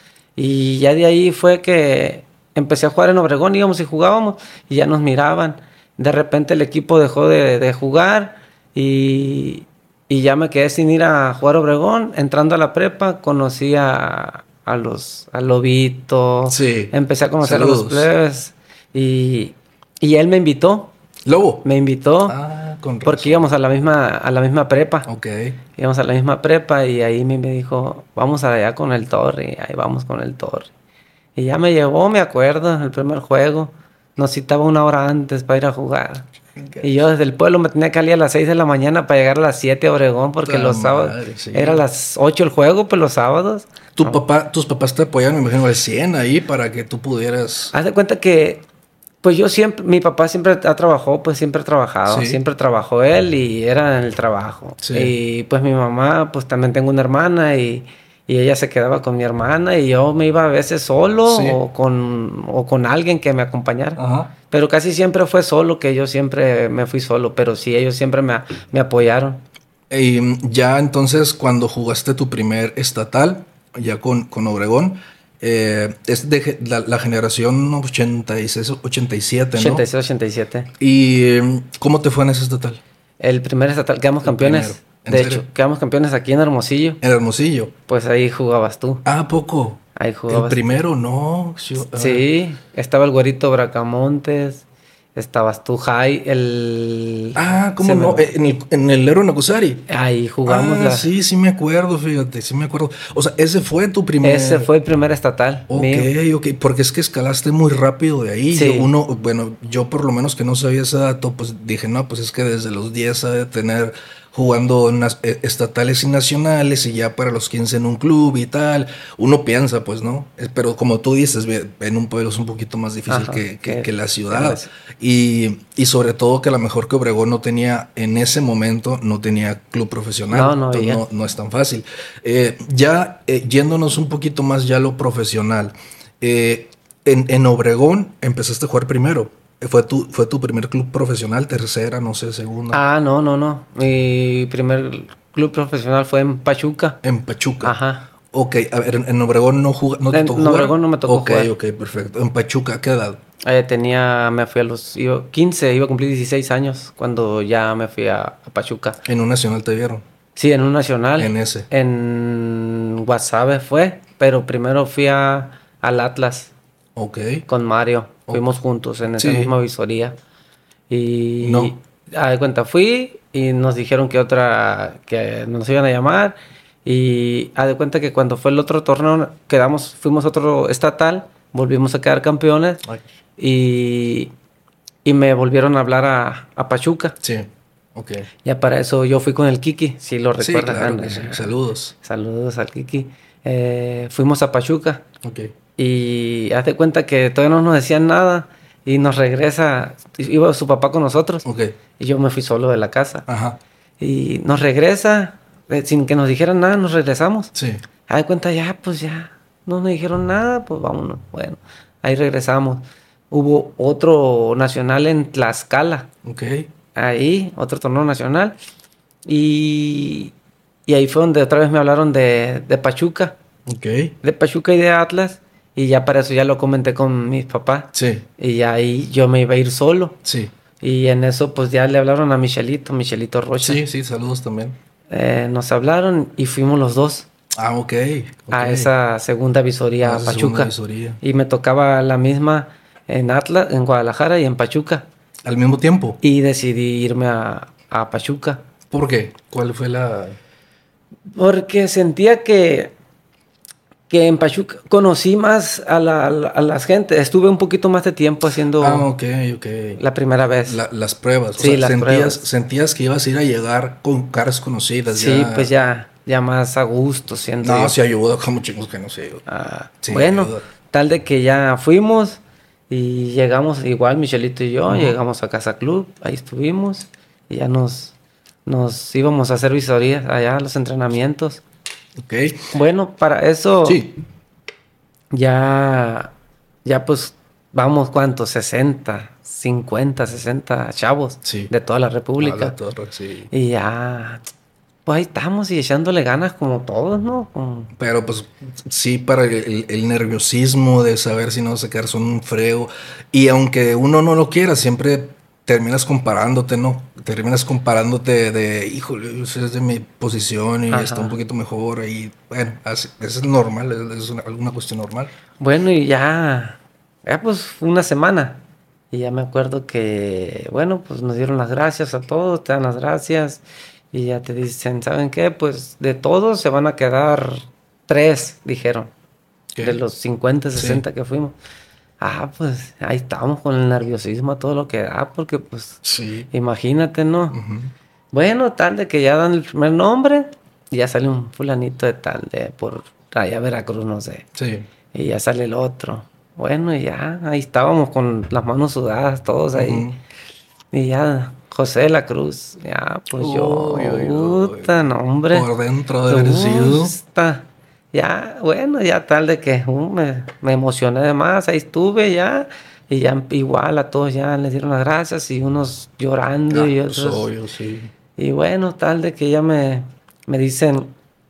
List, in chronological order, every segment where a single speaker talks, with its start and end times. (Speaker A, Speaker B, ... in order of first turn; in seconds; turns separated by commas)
Speaker A: 0.4-20.9, Speaker B: 16.5-18.1, Speaker B: 21.2-21.7, Speaker A: 21.6-22.4, Speaker B: 22.3-23.5, Speaker A: 23.0-25.1, Speaker B: 25.1-25.6, Speaker A: 25.8-30.7, Speaker A: 31.4-36.3, Speaker B: 36.6-37.0, Speaker A: 36.8-44.2, Speaker B: 40.4-41.8, Speaker B: 44.0-47.7, Speaker A: 47.7-48.6, Speaker A: 49.2-69.4, Speaker B: 52.1-52.4, Speaker B: 54.8-55.1, Speaker B: 61.3-61.6, Speaker B: 64.0-64.3, Speaker B: 69.9-79.8, Speaker A: 79.5-80.7, Speaker B: 80.8-82.8, Speaker A: 83.2-87.0, Speaker B: 84.2-85.5, Speaker B: 87.0-87.7, Speaker A: 87.9-89.0, Speaker B: 89.0-92.2, Speaker A: 90.0-90.6, Speaker A: 92.0-98.3, Speaker B: 97.3-99.8, Speaker A: 99.9-101.1, Speaker B: 100.5-104.7, Speaker A: 104.2-106.1, Speaker B: 105.7-142.8, Speaker A: 108.5-108.9, Speaker A: 123.1-124.7, Speaker A: 130.3-131.0, Speaker A: 142.7-147.0, Speaker B: 147.0-153.2, Speaker A: 147.6-148.1, Speaker A: 150.1-151.5, Speaker A: 153.4-159.0, Speaker B: 159.0-160.0, Speaker A: 160.3-166.5, Speaker B: 161.2-161.7, Speaker B: 166.9-167.4, Speaker A: 167.5-170.2, Speaker B: 169.2-169.5, Speaker A: 170.9-182.8, Speaker B: 171.4-171.7, Speaker A: 183.4-184.3, Speaker A: 185.0-187.2, Speaker B: 187.2-188.3, Speaker A: 188.4-195.0, Speaker B: 190.4-191.9, Speaker B: 195.2-195.5, Speaker A: 195.8-201.4, Speaker B: 201.4-201.7, Speaker A: 202.0-203.3, Speaker B: 203.3-203.6, Speaker A: 204.0-207.5, Speaker B: 207.5-207.8, Speaker A: 208.1-216.1, Speaker B: 216.2-216.7, Speaker A: 216.9-218.6, Speaker A: 219.2-220.3, Speaker A: 220.9-223.4, Speaker B: 223.7-224.2, Speaker A: 224.2-230.2, Speaker B: 227.9-228.2, Speaker B: 230.2-230.5, Speaker A: 230.8-233.8, Speaker B: 233.6-234.8, Speaker A: 235.1-237.3, Speaker B: 237.5-238.9, Speaker A: 238.5-245.1, Speaker B: 240.0-241.2, Speaker B: 245.4-246.2, Speaker A: 246.2-248.6, Speaker B: 248.9-250.4, Speaker A: 251.3-252.9, Speaker A: 254.1-259.1, Speaker B: 258.8-260.0, Speaker A: 260.0-260.8, Speaker B: 260.6-265.7, Speaker A: 261.6-262.5, Speaker A: 265.1-267.9, Speaker B: 267.6-269.4, Speaker A: 269.5-278.1, Speaker B: 270.0-270.6, Speaker B: 274.9-275.2, Speaker A: 278.6-281.6, Speaker B: 282.2-282.7, Speaker A: 282.7-284.0, Speaker B: 283.8-284.1, Speaker A: 285.3-286.3, Speaker A: 286.8-292.7, Speaker B: 291.4-291.7, Speaker B: 292.4-293.5, Speaker A: 293.5-294.4, Speaker A: 295.1-297.9, Speaker B: 297.9-315.3, Speaker A: 310.9-311.4, Speaker A: 315.6-329.1, Speaker B: 329.7-330.0, Speaker A: 329.8-331.5, Speaker B: 330.7-331.0, Speaker A: 332.2-337.6, Speaker B: 336.0-336.5, Speaker B: 337.5-337.9, Speaker A: 338.3-344.4, Speaker B: 344.6-344.9, Speaker A: 345.1-350.1, Speaker B: 349.7-350.2, Speaker A: 350.9-355.7, Speaker B: 353.4-357.1, Speaker A: 356.3-367.5, Speaker B: 366.7-368.1, Speaker A: 368.4-371.1